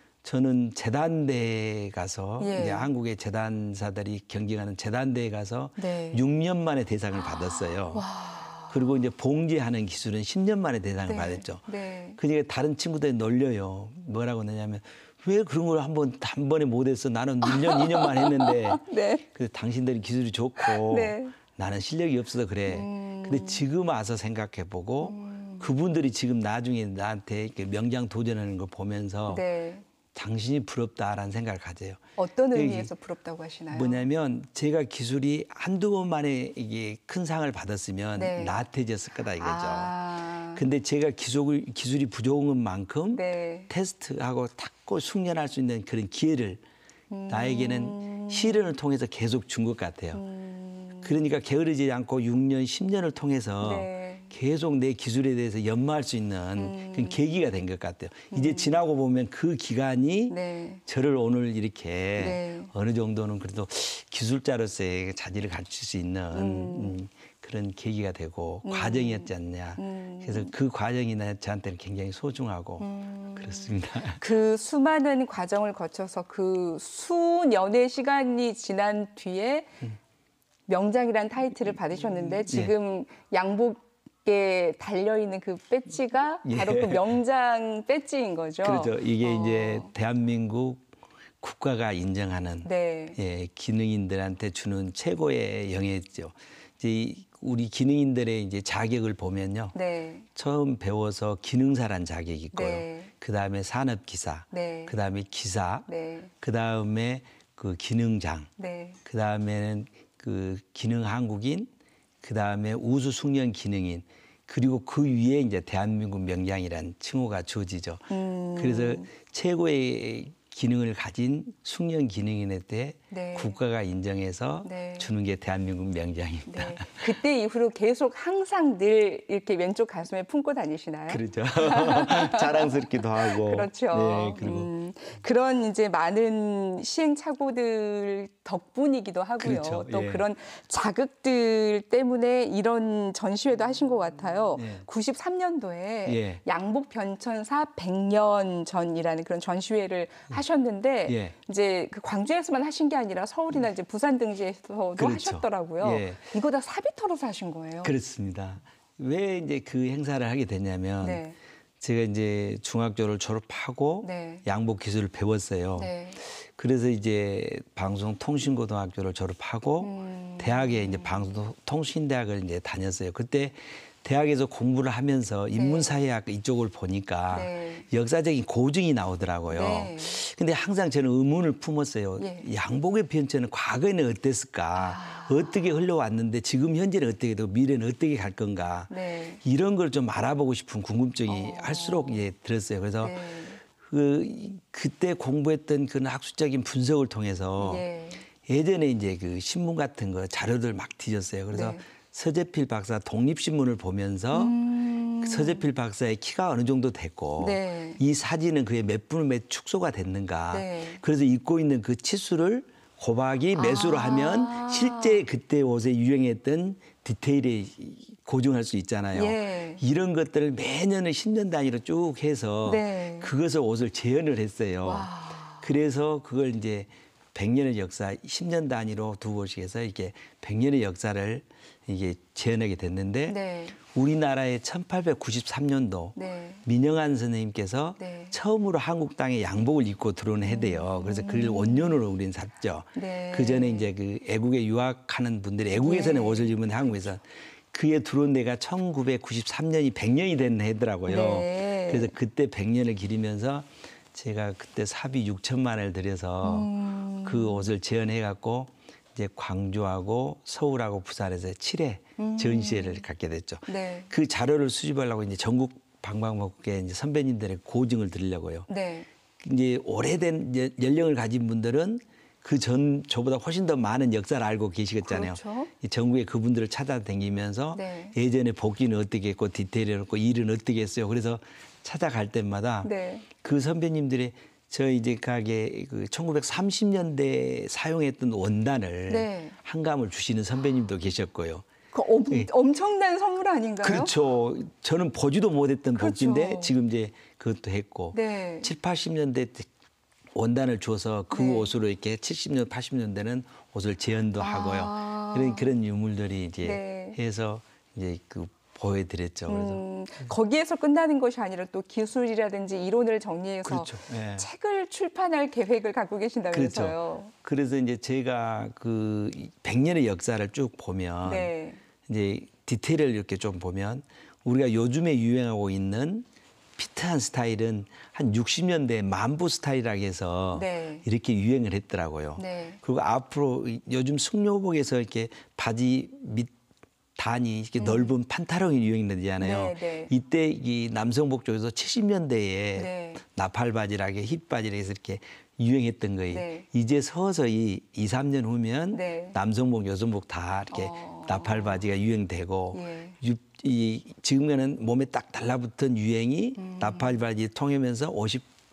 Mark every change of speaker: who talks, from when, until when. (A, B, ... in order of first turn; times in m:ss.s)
0:00.2-0:08.1 A
0:02.4-0:02.9 B
0:05.8-0:06.2 B
0:07.9-0:08.9 B
0:08.7-0:11.6 A
0:11.0-0:12.2 B
0:12.2-0:29.4 A
0:17.4-0:19.2 B
0:20.6-0:21.4 B
0:22.7-0:23.6 B
0:25.0-0:25.7 B
0:29.3-0:29.9 B
0:30.1-0:32.0 A
0:32.2-0:34.0 B
0:32.5-0:32.9 A
0:33.7-0:39.9 A
0:38.2-0:38.6 B
0:39.4-0:40.6 B
0:40.6-0:46.6 A
0:43.1-0:43.7 B
0:47.1-0:48.7 B
0:47.3-0:50.2 A
0:50.1-0:51.2 B
0:51.0-1:14.2 A
0:53.6-0:54.3 B
0:56.6-0:57.2 B
0:58.3-0:58.7 B
1:00.3-1:00.8 B
1:02.2-1:02.7 B
1:06.3-1:07.0 B
1:08.6-1:10.5 B
1:12.8-1:19.8 B
1:20.7-1:29.9 B
1:22.4-1:22.7 A
1:26.4-1:27.2 A
1:28.6-1:30.8 A
1:31.4-1:39.8 A
1:32.6-1:33.2 B
1:39.7-1:40.3 B
1:40.4-1:45.9 A
1:42.5-1:43.1 B
1:44.5-1:44.9 B
1:45.9-1:46.3 B
1:46.4-1:48.5 A
1:48.6-1:49.0 B
1:49.0-1:51.7 A
1:52.2-2:07.2 A
1:58.1-1:59.1 B
2:03.1-2:03.6 B
2:04.6-2:05.1 B
2:06.5-2:37.9 B
2:11.1-2:14.7 A
2:19.4-2:20.3 A
2:24.5-2:24.9 A
2:26.1-2:26.4 A
2:31.1-2:31.4 A
2:35.0-2:36.3 A
2:37.8-2:41.2 A
2:41.0-2:41.4 B
2:41.8-3:13.2 A
2:44.0-2:44.4 B
2:45.8-2:46.2 B
2:49.8-2:51.2 B
2:55.5-2:56.0 B
2:57.3-2:57.9 B
2:59.5-3:00.2 B
3:02.2-3:02.5 B
3:04.8-3:05.6 B
3:08.9-3:09.4 B
3:11.3-3:12.2 B
3:13.0-3:13.6 B
3:13.8-3:17.9 A
3:17.6-3:18.3 B
3:18.4-3:24.6 A
3:21.5-3:21.8 B
3:24.3-3:25.7 B
3:25.2-4:16.7 A
3:27.4-3:28.0 B
3:30.5-3:31.0 B
3:33.5-3:35.2 B
3:39.1-3:39.8 B
3:42.7-3:43.3 B
3:44.8-3:45.7 B
3:53.3-3:53.8 B
3:56.2-3:56.6 B
3:58.0-3:58.3 B
4:00.4-4:02.0 B
4:03.0-4:03.9 B
4:05.7-4:07.1 B
4:11.1-4:12.1 B
4:16.4-4:17.7 B
4:17.2-4:28.7 A
4:22.2-4:23.0 B
4:23.7-4:24.1 B
4:28.7-4:29.1 B
4:29.4-4:51.6 A
4:35.0-4:35.7 B
4:37.7-4:38.2 B
4:42.8-4:43.2 B
4:49.1-4:49.6 B
4:51.9-4:54.1 B
4:53.8-4:59.7 A
4:56.0-4:56.8 B
4:58.1-4:58.7 B
5:00.3-5:09.8 A
5:01.3-5:01.7 B
5:04.4-5:05.7 B
5:06.6-5:07.2 B
5:09.5-5:17.3 B
5:13.6-5:14.5 A
5:16.5-5:21.5 A
5:21.2-5:21.8 B
5:22.1-5:26.2 A
5:26.8-5:36.5 A
5:30.5-5:31.0 B
5:32.4-5:32.8 B
5:37.2-5:58.5 A
5:37.8-5:38.1 B
5:39.4-5:40.1 B
5:42.8-5:43.2 B
5:46.3-5:46.7 B
5:48.9-5:49.4 B
5:50.7-5:51.8 B
5:52.7-5:53.2 B
5:56.6-5:57.2 B